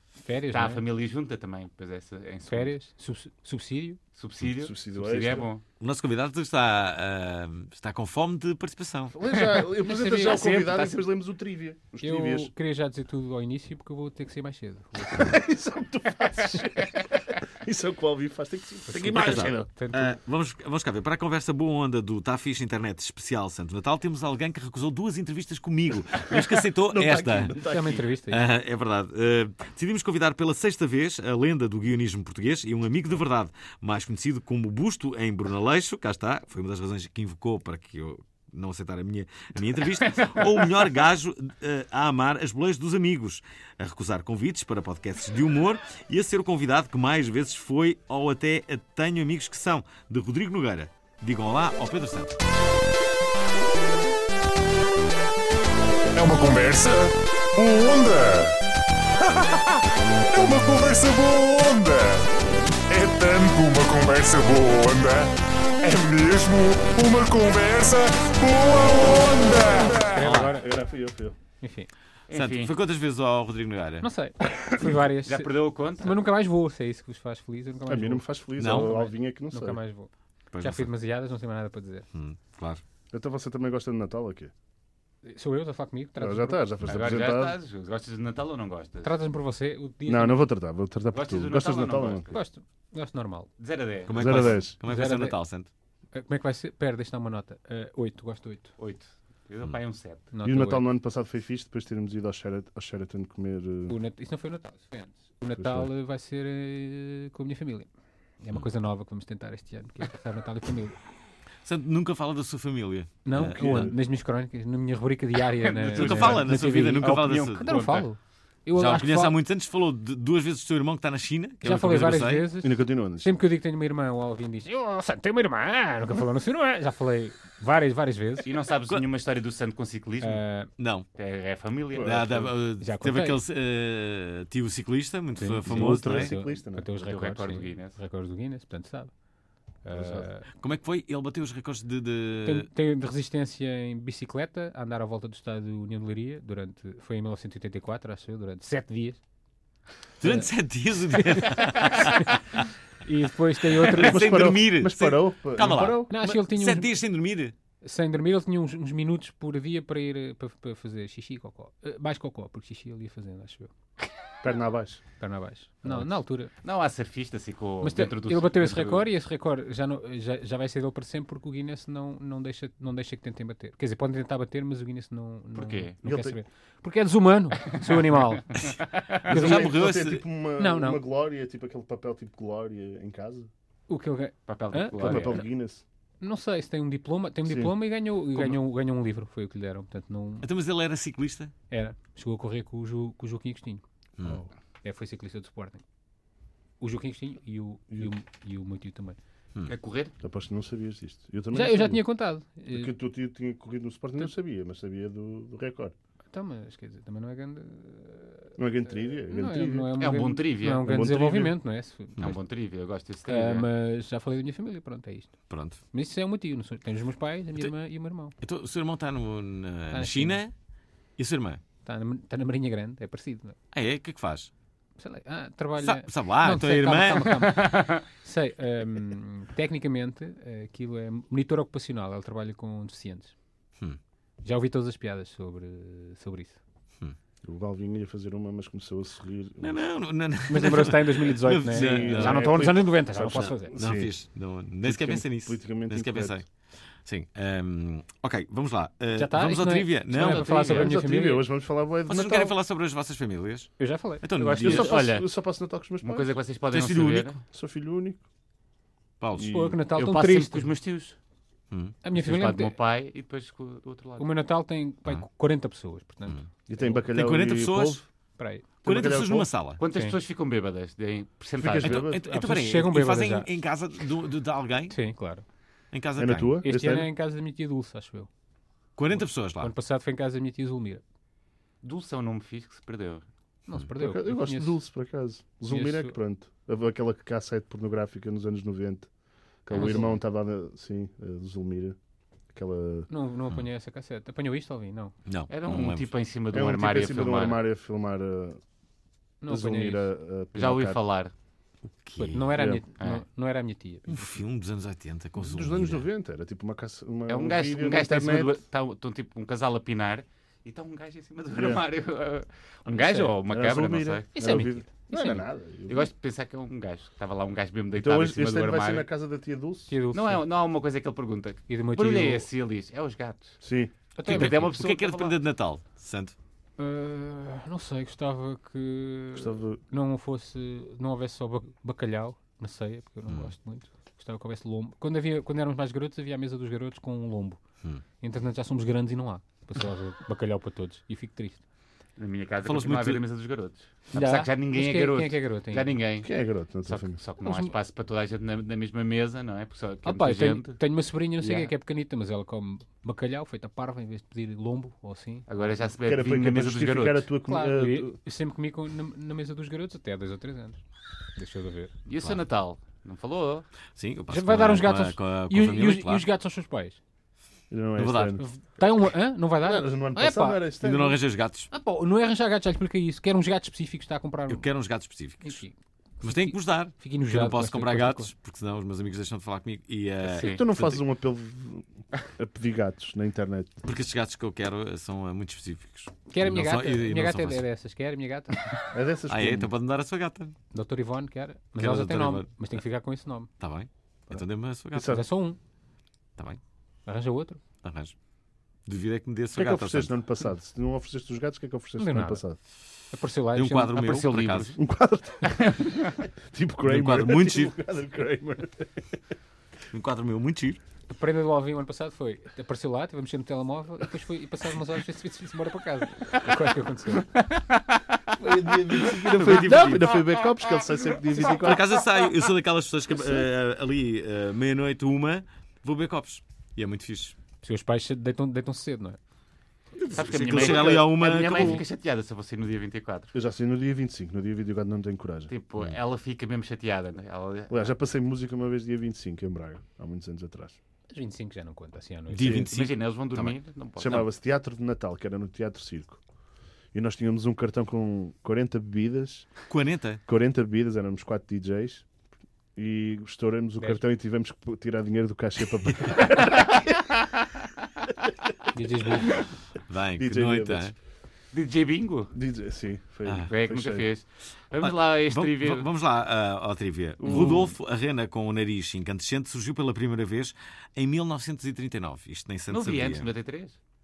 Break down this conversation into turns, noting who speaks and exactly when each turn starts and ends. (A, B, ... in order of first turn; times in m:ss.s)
0:00.2-0:00.8 A
0:00.5-0:02.7 B
0:02.5-0:04.0 A
0:04.1-0:05.6 B
0:04.5-0:05.5 C
0:05.8-0:09.2 D
0:09.1-0:12.5 C
0:09.4-0:11.0 A
0:12.0-0:15.4 A
0:15.0-0:19.7 C
0:18.9-0:20.1 A
0:19.1-0:27.6 D
0:26.3-0:28.1 C
0:27.6-0:28.4 A
0:28.3-0:52.4 D
0:40.1-0:40.6 B
0:56.1-0:58.6 E
0:59.2-1:02.3 E
1:02.9-1:10.2 E
1:09.9-1:10.7 A
1:10.2-1:10.5 D
1:10.4-1:11.4 C
1:11.6-1:11.9 A
1:12.3-1:12.7 B
1:12.3-1:14.1 D
1:14.0-1:22.1 A
1:15.2-1:16.2 B
1:17.9-1:19.8 C
1:18.6-1:18.9 D
1:20.5-1:20.9 D
1:22.1-1:22.8 D
1:23.1-1:24.5 C
1:25.2-1:26.7 A
1:26.2-1:27.6 C
1:26.9-1:29.1 B
1:29.0-1:30.5 A
1:30.1-1:32.3 C
1:31.1-1:32.4 B
1:32.3-1:33.5 A
1:33.6-1:34.5 B
1:34.1-1:35.7 D
1:34.1-1:34.8 C
1:34.8-1:35.4 A
1:36.1-1:38.8 A
1:38.8-1:40.3 B
1:40.3-1:40.9 A
1:40.4-1:44.0 C
1:43.9-1:47.9 A
1:45.6-1:45.9 C
1:48.4-1:51.0 A
1:51.6-1:53.9 D
1:53.2-1:59.4 A
1:53.5-1:54.0 C
1:55.6-1:58.1 B
1:56.0-1:57.6 D
1:58.8-2:02.5 D
2:01.6-2:08.5 A
2:02.6-2:03.3 C
2:08.4-2:10.4 B
2:10.2-2:10.7 A
2:10.8-2:11.1 D
2:11.2-2:12.3 B
2:11.9-2:12.5 C
2:12.0-2:16.3 D
2:12.8-2:13.4 A
2:15.4-2:19.2 A
2:15.6-2:16.9 C
2:17.0-2:18.0 B
2:19.8-2:20.5 A
2:19.9-2:20.3 C
2:20.5-2:22.7 D
2:22.4-2:29.2 A
2:30.2-2:32.6 D
2:31.1-2:32.3 A
2:33.0-2:34.4 A
2:33.8-2:37.6 D
2:33.9-2:36.1 C
2:36.1-2:36.9 A
2:37.8-2:43.7 A
2:44.4-2:45.0 C
2:45.2-2:46.5 A
2:45.8-2:46.1 C
2:46.6-2:49.0 B
2:47.8-2:58.6 A
2:55.6-2:55.9 B
2:56.0-2:56.4 C
2:59.2-2:59.8 A
2:59.2-3:00.2 D
2:59.2-3:03.5 C
3:00.6-3:01.0 A
3:03.9-3:05.4 A
3:04.5-3:05.4 B
3:05.0-3:05.8 C
3:06.2-3:10.5 A
3:07.5-3:07.8 C
3:10.4-3:11.5 D
3:11.7-3:13.8 A
3:14.2-3:14.5 C
3:14.8-3:15.8 A
3:16.8-3:19.2 A
3:17.9-3:18.2 C
3:19.7-3:20.1 B
3:20.2-3:22.0 C
3:21.5-3:22.9 A
3:22.7-3:26.0 C
3:26.3-3:32.2 A
3:28.6-3:30.0 C
3:30.0-3:30.9 B
3:30.8-3:31.6 C
3:32.2-3:33.7 B
3:33.3-3:38.4 A
3:35.5-3:35.8 D
3:38.4-3:40.5 D
3:39.9-3:40.4 A
3:41.2-3:41.6 D
3:41.8-3:43.6 A
3:43.7-3:44.5 D
3:45.0-3:53.3 A
3:45.8-3:47.4 D
3:47.6-3:48.0 B
3:54.4-3:56.6 A
3:57.4-3:59.8 C
3:59.6-4:02.7 D
4:00.5-4:03.8 A
4:01.7-4:04.1 C
4:03.7-4:10.7 D
4:04.8-4:06.4 C
4:09.1-4:11.5 A
4:10.2-4:10.9 B
4:10.5-4:12.6 C
4:12.1-4:14.9 D
4:13.8-4:14.7 A
4:14.4-4:15.3 B
4:14.6-4:16.4 C
4:16.0-4:17.4 B
4:16.7-4:17.3 D
4:17.5-4:18.2 C
4:19.2-4:19.5 D
4:19.4-4:19.8 C
4:19.5-4:20.7 A
4:20.0-4:21.2 B
4:22.0-4:22.7 A
4:22.2-4:24.3 B
4:24.2-4:27.1 A
4:26.7-4:28.0 C
4:27.1-4:28.0 D
4:28.4-4:28.7 A
4:28.8-4:29.5 C
4:28.8-4:29.8 D
4:29.8-4:32.1 B
4:29.9-4:30.2 A
4:31.6-4:32.2 C
4:31.8-4:35.0 D
4:32.2-4:33.5 A
4:34.9-4:35.4 A
4:35.9-4:36.6 D
4:36.2-4:37.1 C
4:36.6-4:38.3 A
4:39.0-4:39.7 D
4:39.2-4:41.0 A
4:41.8-4:43.2 B
4:43.7-4:44.8 A
4:44.0-4:49.1 C
4:45.7-4:46.2 A
4:49.6-4:52.0 C
4:49.7-4:50.2 A
4:49.7-4:50.2 B
4:52.5-4:53.1 C
4:53.1-4:55.1 A
4:55.3-4:56.1 D
4:55.5-4:57.6 B
4:56.5-4:58.6 C
4:59.4-5:00.1 A
4:59.5-5:01.0 C
5:00.6-5:01.3 B
5:02.0-5:02.6 D
5:02.2-5:04.2 A
5:02.5-5:02.8 C
5:03.0-5:03.2 B
5:04.1-5:06.0 D
5:05.4-5:08.6 C
5:07.3-5:14.3 B
5:11.5-5:11.8 C
5:12.9-5:13.4 A
5:13.5-5:16.1 C
5:14.3-5:15.5 A
5:15.9-5:19.1 B
5:18.0-5:19.9 C
5:19.9-5:20.4 A
5:20.1-5:23.6 B
5:21.7-5:22.5 A
5:23.6-5:23.9 C
5:24.2-5:24.8 A
5:24.2-5:26.4 D
5:24.2-5:25.4 B
5:26.8-5:37.6 A
5:29.4-5:29.8 C
5:38.2-5:41.6 A
5:42.2-5:46.3 B
5:42.6-5:43.2 D
5:44.1-5:45.9 A
5:46.2-5:47.2 C
5:46.9-5:50.8 B
5:47.4-5:47.7 A
5:50.0-5:55.5 A
5:51.4-5:51.7 B
5:55.5-5:57.3 B
5:56.0-5:58.2 C
5:57.5-6:00.8 A
6:01.4-6:01.9 A
6:02.1-6:03.7 B
6:04.0-6:06.2 D
6:04.3-6:07.0 A
6:07.7-6:08.4 C
6:08.0-6:08.4 D
6:08.4-6:10.6 A
6:09.6-6:11.2 C
6:10.8-6:11.7 D
6:11.7-6:14.7 A
6:14.5-6:15.6 D
6:15.4-6:18.3 A
6:16.2-6:21.0 D
6:20.2-6:23.8 C
6:20.4-6:20.6 B
6:23.8-6:27.6 D
6:26.3-6:28.7 A
6:28.9-6:29.7 C
6:29.3-6:30.6 D
6:30.7-6:33.5 A
6:31.8-6:32.5 D
6:33.6-6:35.2 D
6:34.9-6:35.2 C
6:35.0-6:35.6 A
6:37.1-6:37.6 A
6:37.8-6:38.1 D
6:38.8-6:40.1 D
6:39.5-6:42.6 C
6:42.0-6:42.4 A
6:43.1-6:44.1 A
6:43.6-6:44.8 D
6:44.0-6:44.8 B
6:44.8-6:49.1 C
6:45.4-6:46.0 B
6:46.8-6:47.7 D
6:49.9-6:50.8 D
6:51.1-6:57.3 A
6:57.2-6:58.2 B
6:58.4-7:01.9 C
6:58.9-7:00.2 D
7:01.6-7:07.4 D
7:07.6-7:09.2 A
7:10.0-7:11.0 C
7:10.0-7:11.8 D
7:10.0-7:13.3 B
7:13.3-7:15.5 C
7:15.5-7:17.9 B
7:17.7-7:20.8 C
7:21.1-7:22.6 A
7:22.3-7:23.6 D
7:22.4-7:22.7 C
7:22.4-7:24.3 B
7:24.0-7:26.2 C
7:26.9-7:29.5 C
7:29.7-7:30.2 D
7:30.3-7:32.1 C
7:32.8-7:37.1 C
7:38.7-7:39.4 A
7:39.9-7:40.9 D
7:40.2-7:40.9 C
7:41.5-7:42.3 B
7:42.3-7:44.1 C
7:43.3-7:43.5 D
7:43.5-7:45.9 B
7:44.8-7:53.3 D
7:47.2-7:47.7 C
7:47.3-7:47.6 B
7:52.7-7:53.8 B